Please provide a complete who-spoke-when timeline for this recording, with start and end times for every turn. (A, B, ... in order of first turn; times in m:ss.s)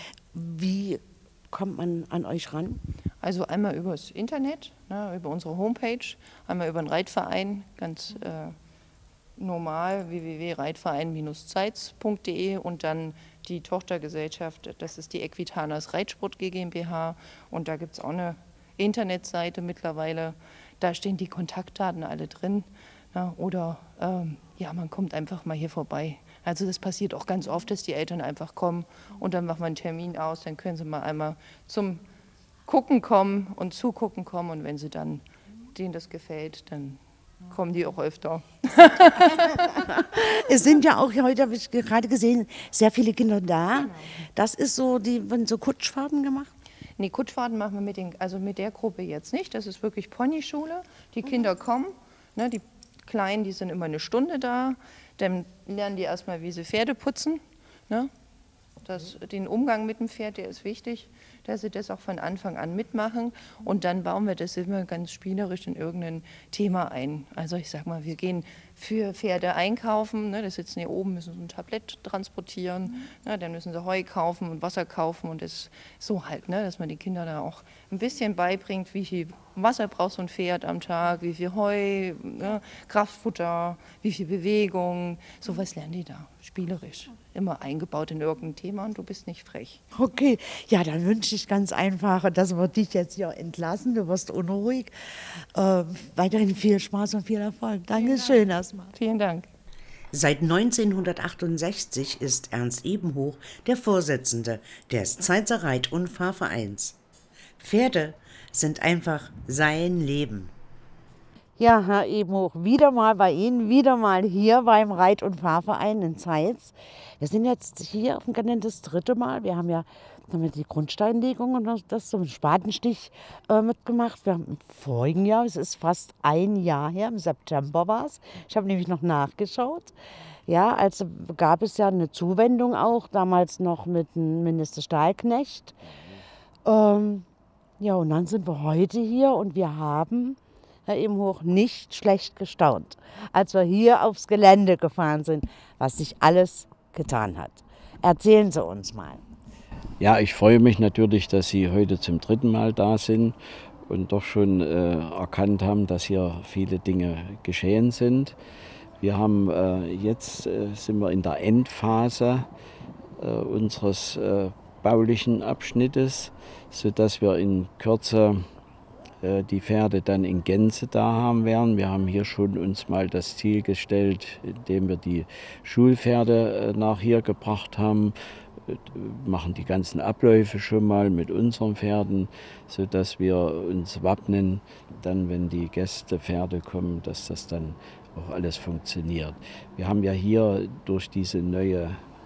0:00.3-0:02.8 A
0:03.2-0:08.6 B
0:09.4-0:32.0 B
0:32.7-0:39.6 B
0:39.7-0:46.5 A
0:47.0-0:58.1 B
0:58.8-1:29.8 B
1:30.0-1:34.9 A
1:35.6-1:38.9 A
1:38.9-1:39.5 B
1:40.1-1:47.0 C
1:47.6-1:50.5 C
1:51.6-2:09.9 A
2:10.5-2:15.8 A
2:16.6-2:17.3 A
2:17.8-2:29.2 A
2:30.0-2:33.4 D
2:33.9-2:38.4 D
2:39.0-2:42.5 D
2:43.2-2:48.5 D
2:49.2-2:58.2 D
2:58.7-3:12.0 D